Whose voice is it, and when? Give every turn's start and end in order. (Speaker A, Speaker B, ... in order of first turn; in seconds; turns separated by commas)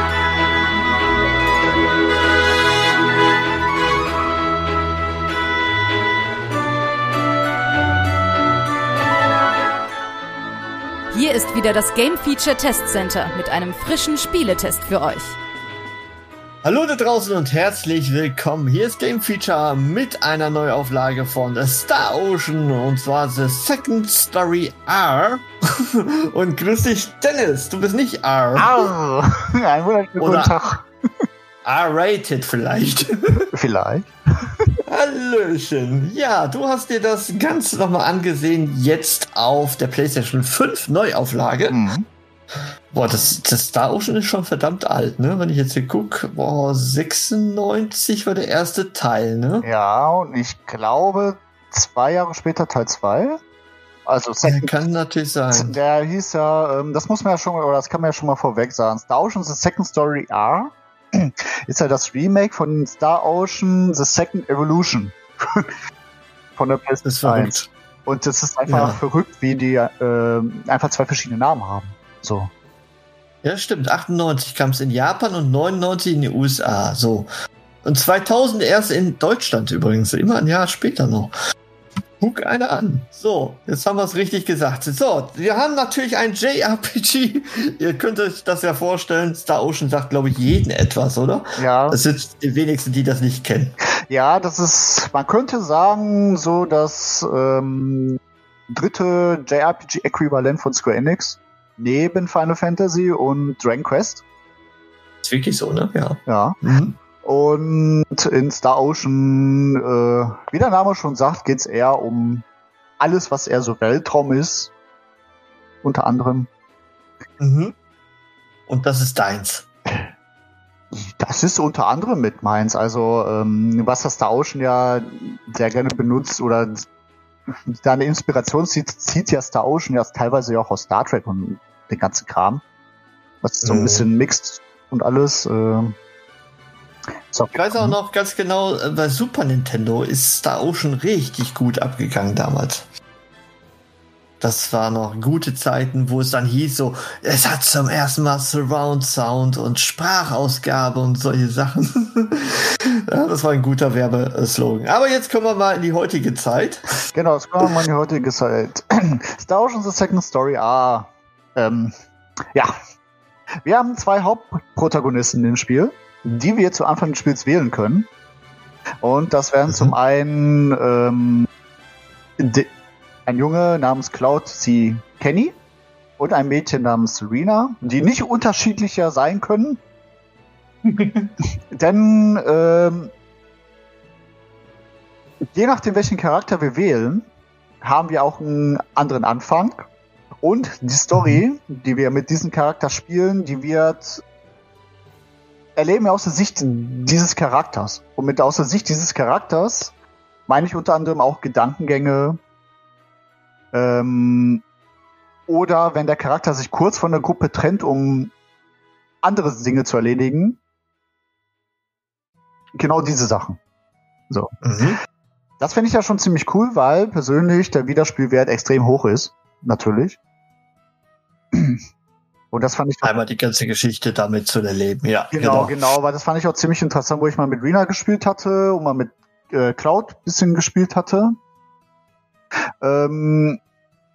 Speaker A: 11.1-15.4, Speaker B: 16.6-28.9, Speaker C: 28.6-30.9, Speaker B: 30.2-30.6, Speaker B: 31.6-33.4, Speaker C: 33.6-34.5, Speaker B: 34.9-41.9, Speaker C: 41.7-42.1, Speaker B: 42.9-49.7, Speaker C: 49.7-53.4, Speaker C: 54.1-54.7, Speaker B: 54.4-55.8, Speaker C: 55.6-65.8, Speaker C: 66.6-72.5, Speaker B: 67.0-67.7, Speaker B: 68.7-69.0, Speaker B: 73.4-77.3, Speaker B: 77.8-81.3, Speaker B: 82.2-93.8, Speaker C: 91.6-92.0, Speaker C: 94.1-98.2, Speaker C: 98.7-104.2, Speaker B: 105.2-107.0, Speaker C: 106.3-106.6, Speaker C: 107.2-112.4, Speaker C: 113.0-114.7, Speaker C: 115.8-116.5, Speaker B: 117.4-117.7, Speaker B: 118.7-119.7, Speaker C: 119.9-120.1, Speaker C: 120.9-126.8, Speaker C: 127.7-132.6, Speaker C: 133.4-135.9, Speaker B: 133.6-134.1, Speaker C: 137.3-137.9, Speaker B: 137.5-142.9, Speaker B: 144.4-157.0, Speaker C: 157.1-161.9, Speaker B: 157.6-157.9, Speaker C: 163.6-168.1, Speaker C: 169.0-171.5, Speaker B: 169.7-169.9, Speaker C: 172.4-172.7, Speaker C: 173.3-175.6, Speaker C: 176.2-179.8, Speaker B: 180.9-181.3, Speaker C: 181.7-183.1, Speaker C: 185.5-187.3, Speaker C: 187.8-189.9, Speaker C: 190.4-194.2, Speaker B: 191.1-191.4, Speaker C: 195.8-199.9, Speaker C: 200.5-202.4, Speaker C: 203.7-204.6, Speaker C: 205.5-208.3, Speaker C: 209.2-210.6, Speaker C: 212.8-213.6, Speaker B: 214.6-215.0, Speaker C: 215.6-220.2, Speaker C: 221.5-221.8, Speaker C: 222.5-223.0, Speaker B: 223.0-225.9, Speaker C: 225.3-231.3, Speaker C: 232.8-233.6